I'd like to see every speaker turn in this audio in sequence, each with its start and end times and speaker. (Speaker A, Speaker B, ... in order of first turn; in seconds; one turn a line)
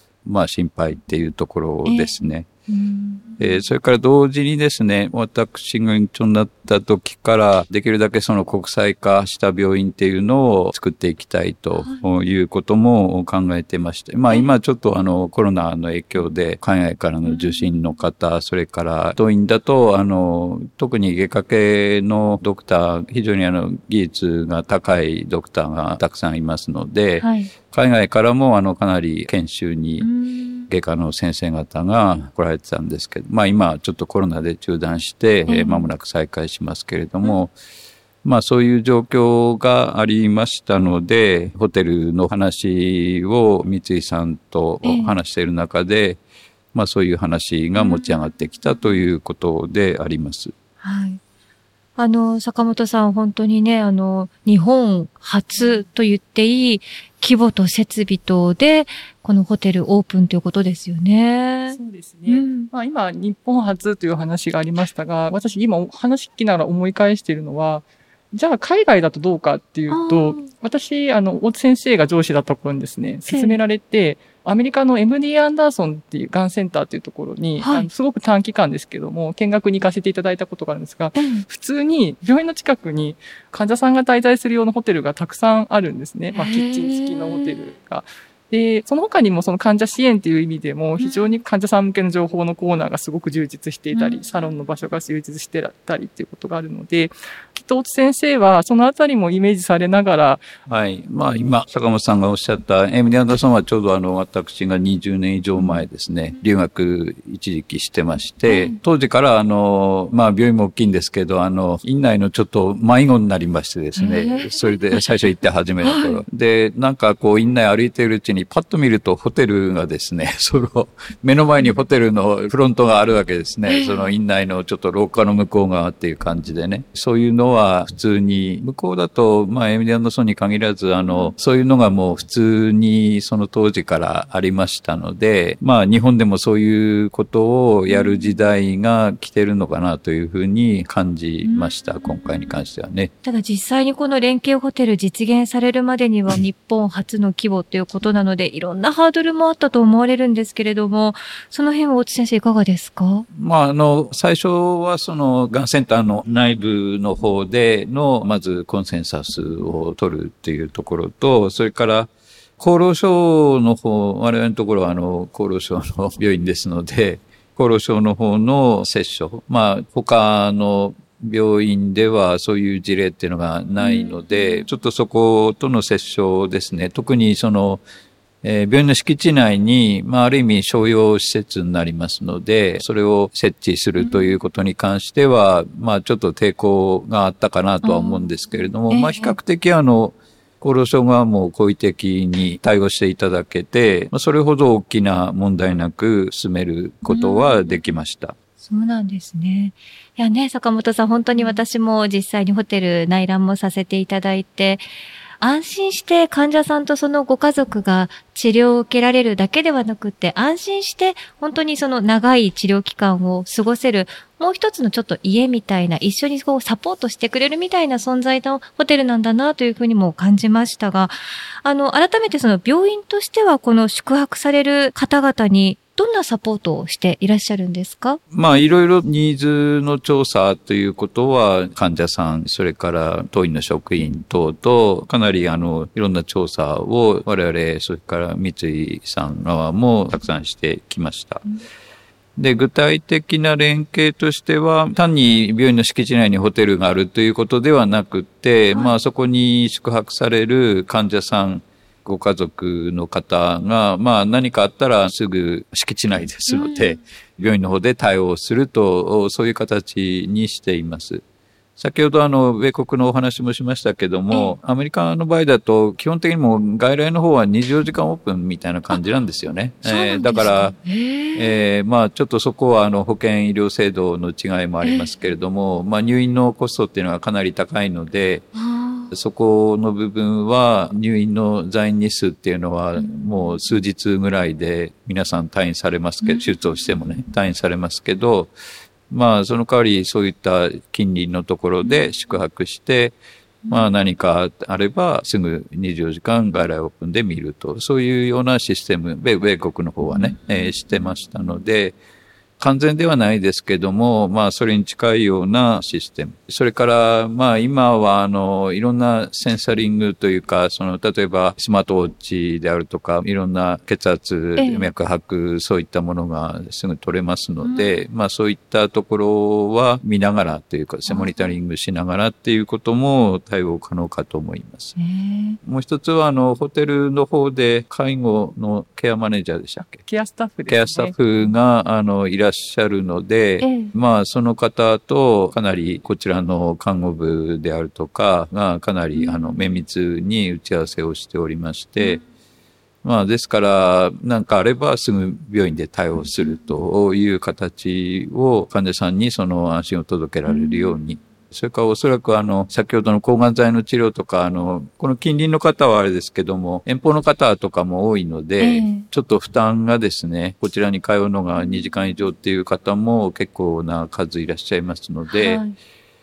Speaker A: 0.2-2.5
Speaker B: 1.8-2.2
Speaker B: 2.7-3.6
Speaker A: 3.4-30.1
Speaker B: 11.8-12.0
Speaker B: 17.2-17.7
Speaker B: 27.2-27.5
Speaker B: 30.0-30.7
Speaker A: 30.7-37.5
Speaker B: 35.5-35.9
Speaker A: 38.2-46.2
Speaker B: 44.8-45.1
Speaker A: 46.7-50.5
Speaker B: 47.8-48.1
Speaker B: 50.8-51.2
Speaker B: 52.0-62.7
Speaker C: 61.7-100.4
Speaker B: 69.9-70.5
Speaker B: 73.3-73.6
Speaker B: 77.6-77.9
Speaker B: 81.2-81.5
Speaker B: 86.3-87.6
Speaker B: 91.0-91.4
Speaker B: 93.9-94.2
Speaker A: 100.7-143.1
Speaker B: 105.6-105.8
Speaker B: 108.5-108.8
Speaker B: 114.0-115.0
Speaker B: 115.8-116.2
Speaker B: 123.7-124.1
Speaker B: 131.1-131.3
Speaker B: 137.9-138.4
Speaker B: 141.4-141.7
Speaker B: 143.2-153.3
Speaker A: 153.3-177.8
Speaker B: 173.8-174.6
Speaker A: 178.4-198.3
Speaker B: 184.0-184.3
Speaker B: 187.8-188.2
Speaker B: 188.9-189.4
Speaker B: 197.1-197.6
Speaker B: 198.6-204.8
Speaker B: 205.4-228.2
Speaker A: 228.3-241.4
Speaker A: 242.4-261.2
Speaker B: 256.5-256.9
Speaker A: 261.8-270.8
Speaker B: 269.9-271.6
Speaker A: 271.4-278.5
Speaker B: 274.8-275.1
Speaker B: 278.6-279.1
Speaker A: 279.1-288.5
Speaker B: 283.0-283.6
Speaker B: 286.2-286.5
Speaker A: 289.1-293.1
Speaker A: 293.7-301.9
Speaker A: 302.6-325.0
Speaker B: 314.6-314.9
Speaker B: 317.6-318.0
Speaker B: 321.1-321.5
Speaker B: 325.0-325.6
Speaker A: 325.6-330.0
Speaker C: 330.1-331.2
Speaker A: 330.7-342.2
Speaker B: 333.6-333.9
Speaker B: 339.2-339.5
Speaker A: 343.0-365.6
Speaker B: 350.5-351.0
Speaker B: 358.6-359.1
Speaker B: 365.3-365.8